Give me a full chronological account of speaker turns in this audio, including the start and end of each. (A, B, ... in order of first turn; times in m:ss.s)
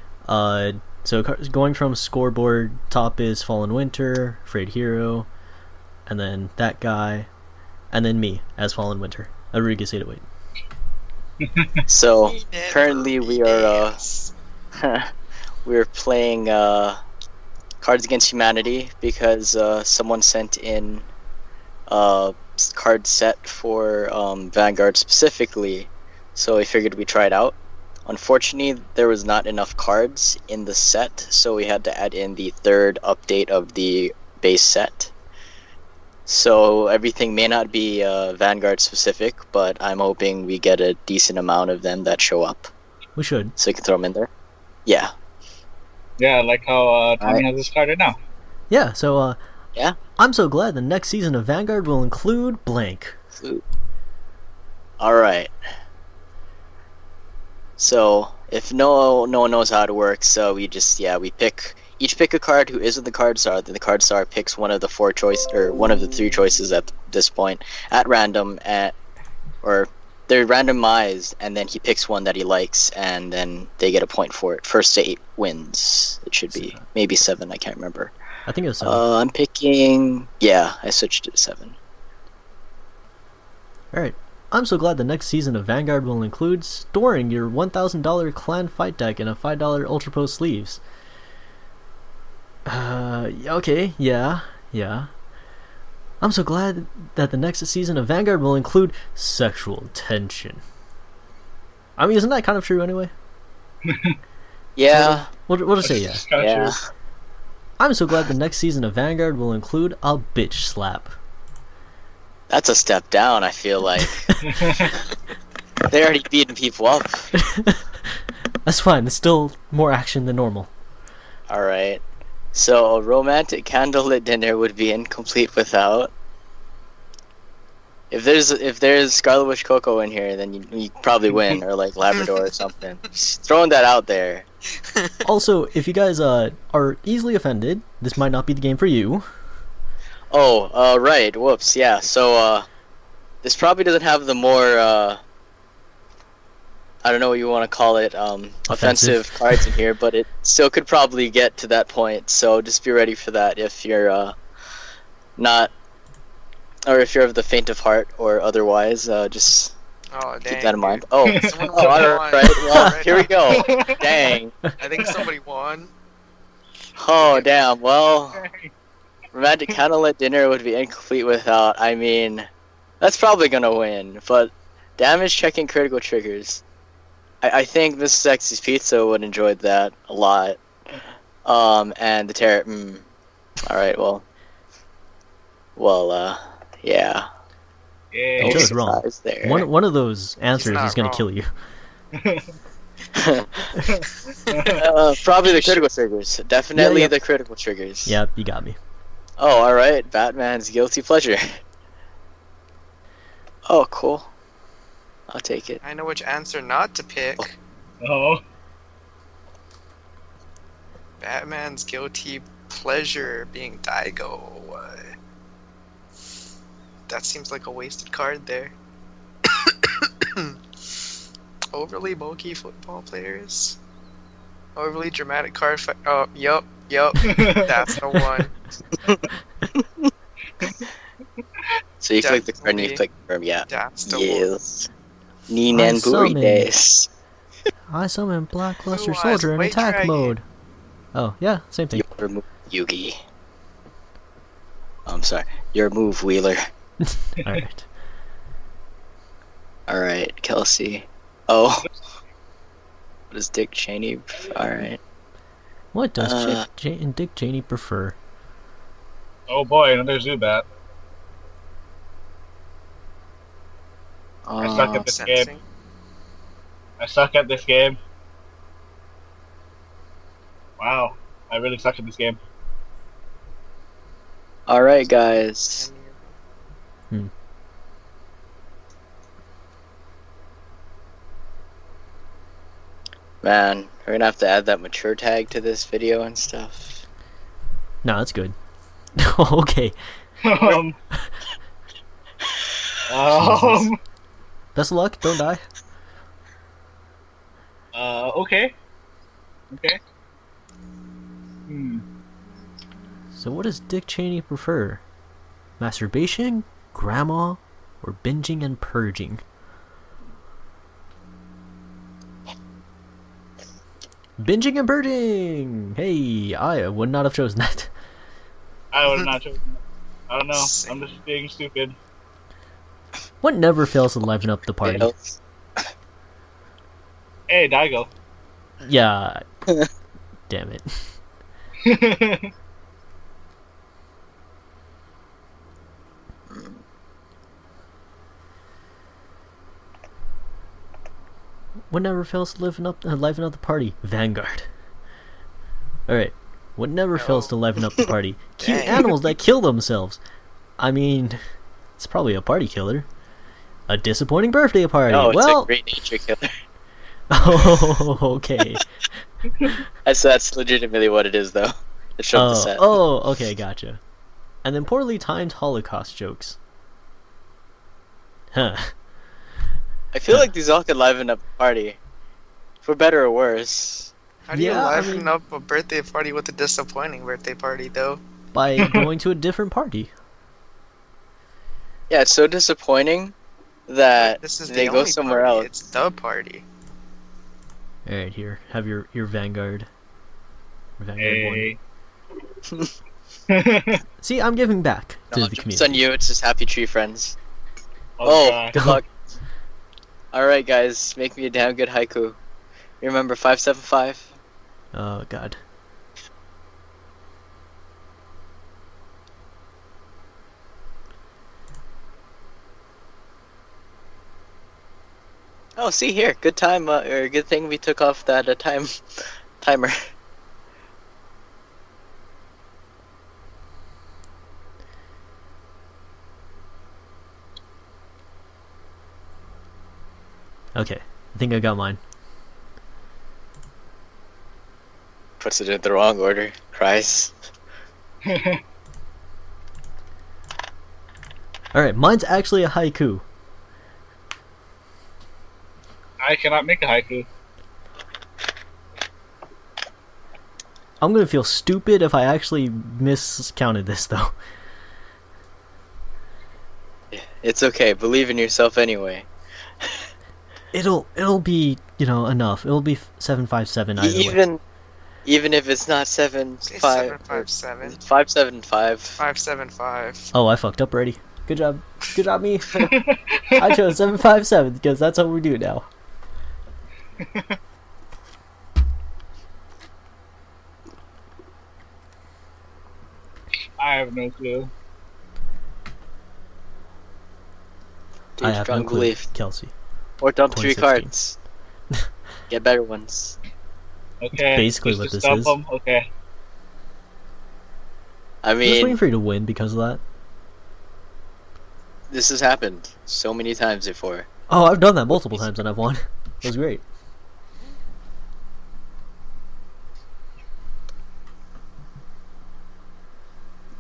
0:00.2-0:05.3 A
0:06.1-0:07.3 A
0:07.9-0:10.2 A
0:11.4-0:11.7 B
0:11.9-0:14.0 C
0:12.2-0:14.3 D
0:14.7-0:15.1 C
0:15.6-0:17.0 C
0:17.8-0:21.1 C
0:21.9-0:35.1 C
0:36.3-0:42.7 C
0:43.2-0:43.5 A
0:43.6-0:44.3 C
0:44.8-0:45.1 C
0:46.2-0:48.2 B
0:47.2-0:47.4 C
0:48.7-0:49.4 A
0:50.2-0:53.2 A
0:53.3-0:53.6 C
0:55.0-0:55.5 C
0:57.8-1:09.0 C
1:09.6-1:18.1 C
1:16.5-1:16.8 A
1:18.5-1:19.0 A
1:18.8-1:21.8 C
1:23.9-1:30.8 A
1:32.6-1:35.1 A
1:36.2-1:40.6 A
1:42.0-1:43.1 A
1:43.8-1:44.2 B
1:44.8-1:45.3 C
1:44.9-1:46.2 A
1:45.8-1:46.8 B
1:46.4-1:46.8 C
1:47.8-1:51.1 A
1:52.5-1:54.3 C
1:54.4-1:54.9 B
1:55.9-1:57.3 C
1:57.4-1:57.8 A
1:58.6-2:00.7 A
2:01.5-2:02.0 C
2:02.5-2:06.1 C
2:08.1-2:14.4 C
2:14.8-2:15.1 D
2:15.2-2:19.3 A
2:20.3-2:22.7 C
2:23.4-2:25.2 C
2:27.0-2:34.4 C
2:28.7-2:29.8 A
2:35.4-2:35.7 C
2:36.8-2:39.7 C
2:40.1-2:43.7 D
2:40.5-2:44.5 C
2:41.2-2:42.2 B
2:42.7-2:43.0 A
2:43.5-2:44.4 B
2:44.8-2:45.9 D
2:44.9-2:45.3 B
2:47.0-2:48.4 C
2:47.1-2:47.4 D
2:48.3-2:48.7 B
2:49.3-2:52.5 C
2:53.0-2:56.6 C
2:57.4-3:00.6 C
3:01.4-3:03.0 C
3:03.6-3:04.2 C
3:05.8-3:07.3 C
3:08.1-3:08.7 B
3:08.4-3:09.7 C
3:08.4-3:11.5 A
3:10.5-3:11.2 D
3:12.1-3:12.6 B
3:13.1-3:13.7 C
3:13.8-3:14.8 B
3:14.5-3:14.8 D
3:14.7-3:18.2 C
3:15.4-3:15.8 D
3:16.8-3:17.1 A
3:18.0-3:18.8 A
3:19.4-3:21.6 C
3:23.7-3:24.3 C
3:25.3-3:25.8 C
3:25.8-3:27.5 D
3:28.0-3:28.4 B
3:31.2-3:35.1 D
3:37.1-3:38.7 D
3:39.4-3:40.6 D
3:41.7-3:43.8 D
3:44.8-3:48.5 D
3:47.3-3:47.8 B
3:49.0-3:50.1 C
3:52.0-3:54.9 C
3:52.2-3:53.0 D
3:53.7-3:54.5 D
3:55.5-3:57.1 C
3:55.7-3:56.7 A
3:57.9-4:00.4 A
3:58.9-4:00.3 D
4:01.1-4:02.0 A
4:01.9-4:03.2 C
4:05.0-4:06.6 C
4:07.0-4:07.9 A
4:09.9-4:11.9 C
4:13.3-4:15.0 C
4:15.9-4:18.2 A
4:16.2-4:16.6 C
4:19.5-4:20.6 B
4:24.4-4:25.0 C
4:24.6-4:25.5 B
4:24.7-4:25.6 D
4:27.0-4:28.0 B
4:30.8-4:32.4 B
4:34.7-4:35.9 C
4:35.7-4:36.4 D
4:43.4-4:47.0 C
4:48.0-4:48.5 A
4:49.2-4:49.9 A
4:50.4-4:51.0 B
4:53.1-4:54.0 B
4:53.3-4:53.9 A
4:54.8-4:55.6 A
4:57.9-4:58.7 B
4:59.7-5:00.0 B
5:01.7-5:02.0 B
5:03.4-5:05.0 A
5:05.8-5:09.4 A
5:14.4-5:17.9 A
5:18.9-5:22.0 B
5:20.5-5:21.1 D
5:23.4-5:25.1 A
5:24.8-5:25.4 C
5:27.5-5:28.1 B
5:28.8-5:29.4 A
5:30.5-5:31.2 A
5:31.8-5:32.5 B
5:36.5-5:36.8 C
5:41.9-5:44.7 A
5:46.1-5:50.2 A
5:47.1-5:47.5 D
5:48.6-5:49.1 D
5:50.8-5:51.4 A
5:52.0-5:53.1 A
5:53.9-5:55.7 A
5:55.1-5:56.5 C
5:57.3-5:58.9 A
6:00.0-6:03.0 C
6:02.3-6:04.0 A
6:04.6-6:06.6 A
6:08.5-6:08.9 A
6:10.1-6:12.0 C
6:12.8-6:14.1 C
6:14.5-6:18.2 D
6:14.5-6:15.3 A
6:18.5-6:20.1 A
6:18.8-6:19.0 B
6:22.1-6:23.3 C
6:23.9-6:25.7 C
6:24.2-6:26.6 D
6:28.0-6:29.9 A
6:31.0-6:31.7 A
6:31.2-6:31.8 B
6:33.5-6:34.0 B
6:34.2-6:36.0 A
6:35.3-6:37.4 C
6:38.2-6:39.0 B
6:38.2-6:39.1 C
6:40.3-6:42.4 C
6:43.0-6:44.3 C
6:44.9-6:45.6 A
6:55.8-7:00.0 C
7:10.7-7:12.0 A
7:15.4-7:17.4 C
7:18.2-7:18.6 B
7:21.7-7:23.2 A
7:26.2-7:27.3 B
7:31.0-7:34.3 A
7:37.1-7:39.3 C
7:39.8-7:40.1 C
7:40.7-7:44.4 A
7:44.0-7:44.6 C
7:45.2-7:49.2 C
7:46.6-7:48.0 D
7:49.2-7:50.3 D
7:50.3-7:52.9 A
7:52.8-7:53.8 B
7:53.6-7:55.9 A
7:57.2-7:57.6 B
8:03.8-8:04.7 B
8:08.4-8:09.2 C
8:08.4-8:09.7 A
8:10.2-8:11.4 C
8:10.5-8:11.1 A
8:12.5-8:13.4 C
8:14.2-8:16.0 B
8:14.5-8:15.6 A
8:18.4-8:19.0 C
8:18.6-8:20.0 A
8:22.1-8:24.3 C
8:24.5-8:26.8 A